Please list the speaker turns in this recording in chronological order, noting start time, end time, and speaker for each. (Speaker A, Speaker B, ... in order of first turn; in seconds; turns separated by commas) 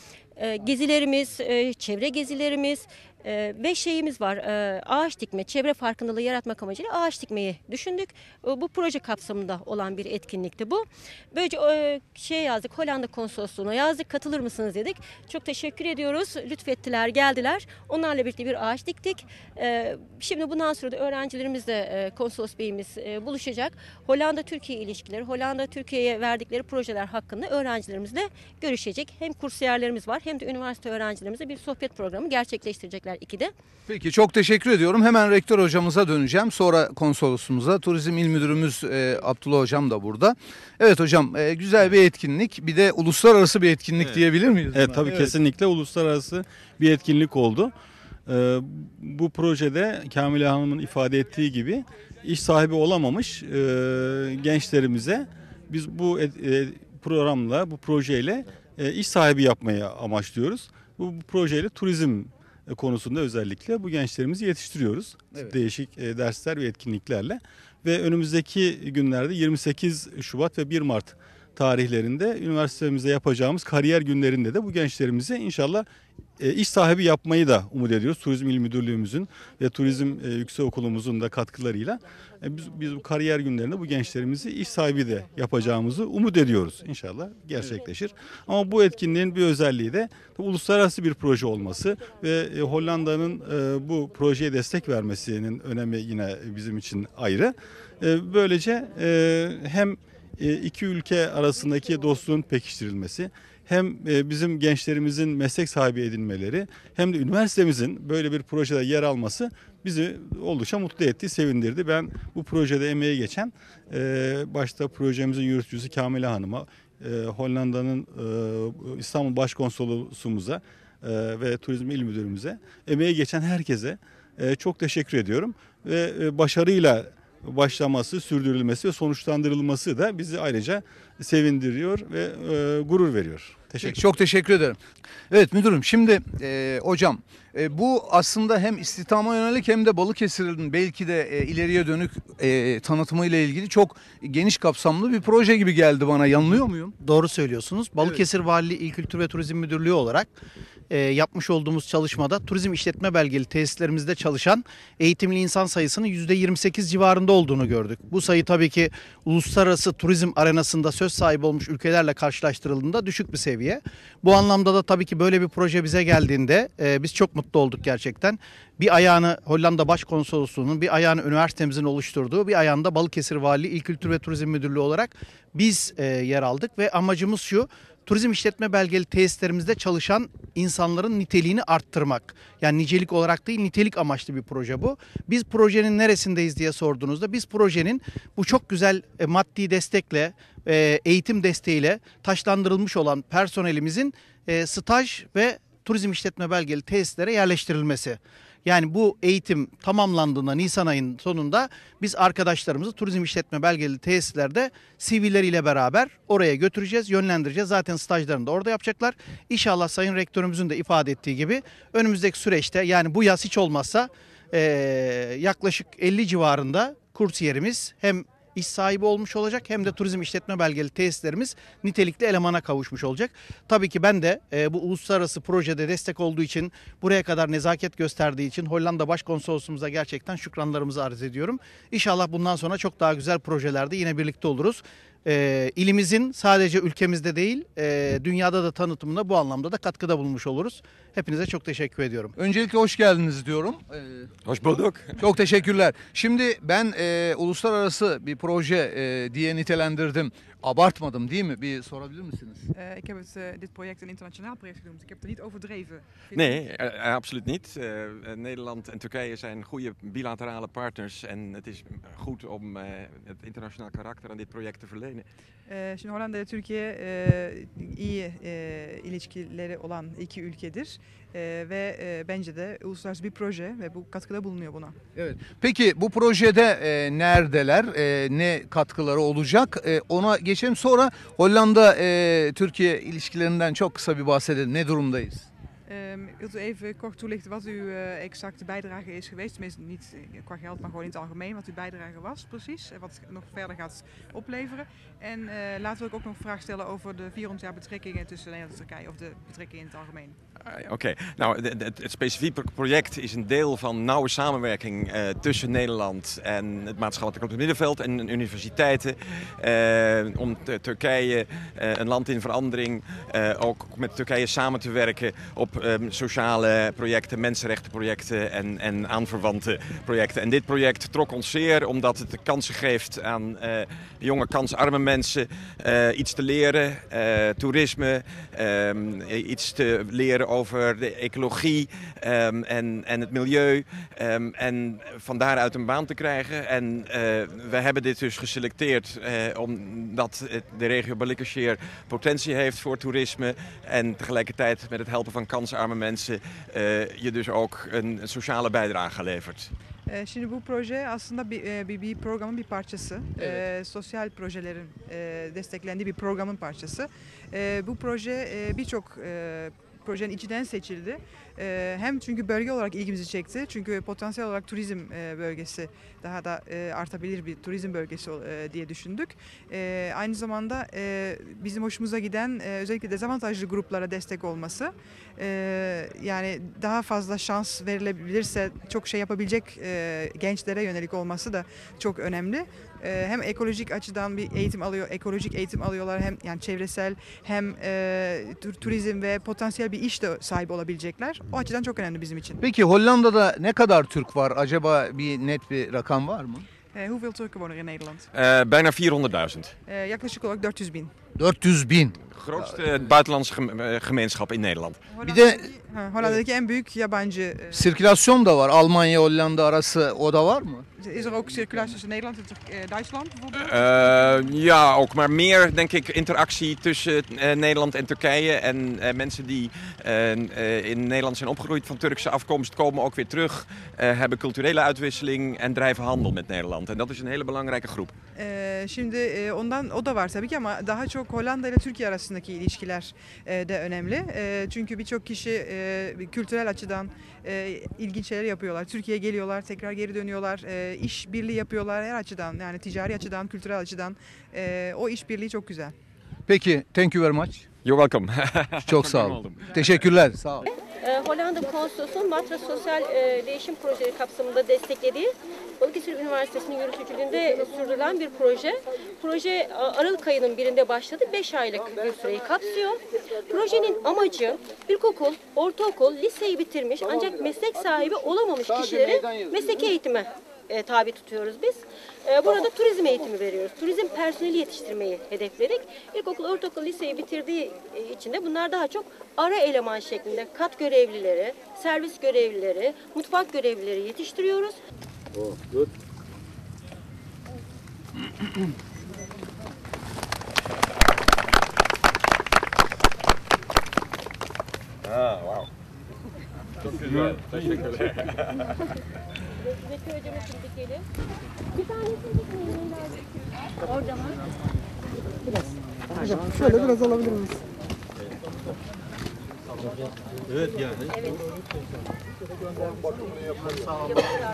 Speaker A: 0.4-33.5, Speaker B: 33.9-45.3, Speaker C: 44.7-47.7, Speaker C: 48.3-75.8, Speaker C: 76.4-134.0, Speaker B: 133.8-134.8, Speaker B: 135.3-146.9, Speaker D: 147.0-150.3, Speaker B: 148.0-148.2, Speaker D: 150.9-242.3, Speaker B: 242.3-244.3, Speaker E: 244.4-245.1, Speaker B: 245.2-252.7, Speaker F: 252.7-256.6, Speaker E: 256.3-265.3, Speaker F: 265.7-274.9, Speaker B: 275.1-285.5, Speaker F: 285.9-300.4, Speaker E: 300.6-349.7, Speaker F: 350.1-392.6, Speaker B: 353.4-353.6, Speaker B: 392.6-396.7, Speaker F: 396.9-398.3, Speaker E: 398.3-399.7, Speaker F: 399.9-401.1, Speaker B: 401.4-402.2, Speaker E: 402.3-405.0, Speaker F: 405.1-408.0, Speaker B: 405.2-405.6, Speaker B: 407.7-411.9, Speaker F: 411.0-413.8, Speaker E: 413.5-428.1, Speaker F: 428.3-445.9, Speaker B: 446.5-447.7, Speaker E: 447.8-450.1, Speaker B: 448.8-450.7, Speaker A: 450.7-484.8, Speaker B: 468.9-469.5, Speaker E: 495.0-495.7, Speaker E: 496.8-498.6, Speaker A: 500.1-500.9